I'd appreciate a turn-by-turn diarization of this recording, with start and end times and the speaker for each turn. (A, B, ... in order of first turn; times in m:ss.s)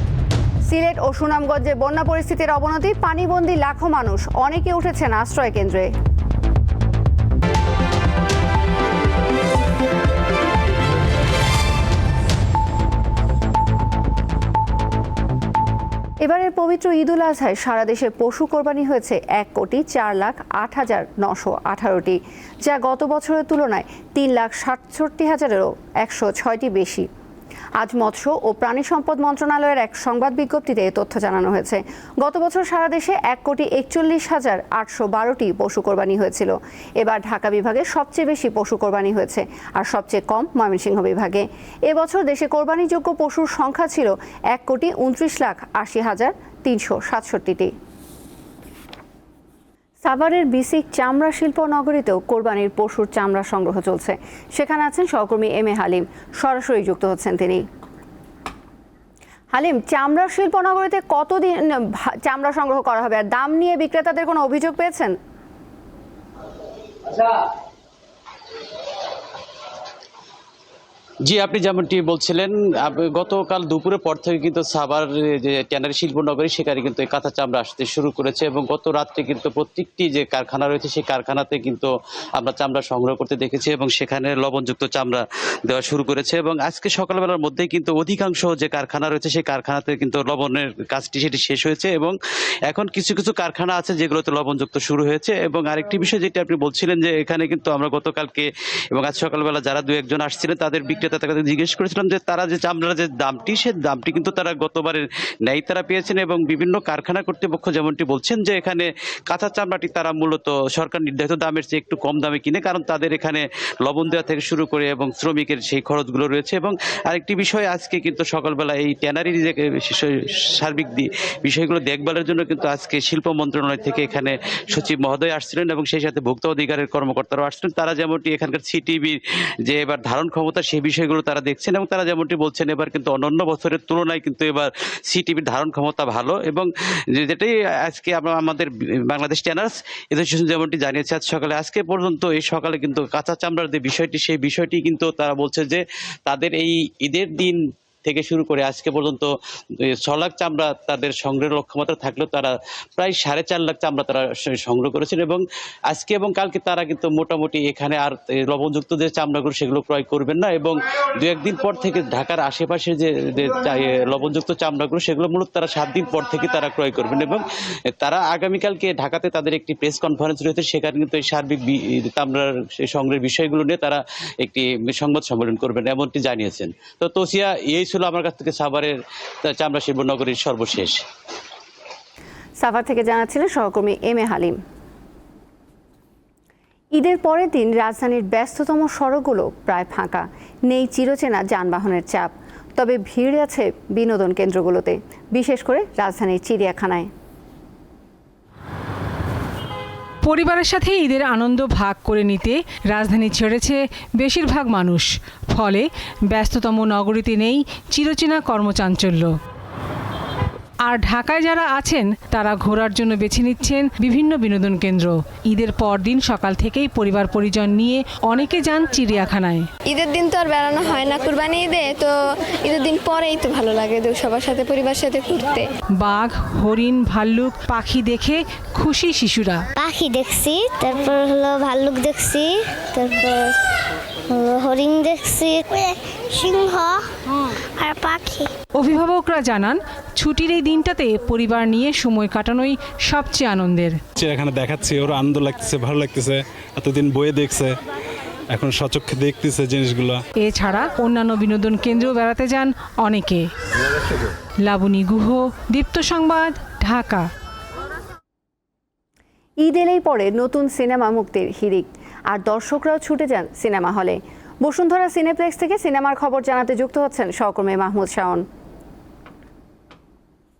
0:00.7-0:05.9 A
0:16.2-0:27.1 A
0:27.8-0:47.7 A
0:50.0-0:57.6 A
0:59.5-1:05.2 A
1:11.2-1:32.1 B
1:32.7-2:29.3 B
2:30.0-2:47.4 B
2:48.0-3:01.0 B
3:02.6-3:04.6 A
3:06.9-3:17.1 A
3:20.2-3:29.3 C
3:30.8-3:39.7 C
3:39.8-3:45.6 D
3:46.0-3:49.7 C
3:49.8-3:53.6 E
3:54.3-3:58.5 E
3:58.8-4:04.0 C
4:04.2-4:07.8 F
4:08.5-4:10.2 F
4:10.3-4:13.5 C
4:14.6-4:17.3 C
4:19.6-4:28.4 A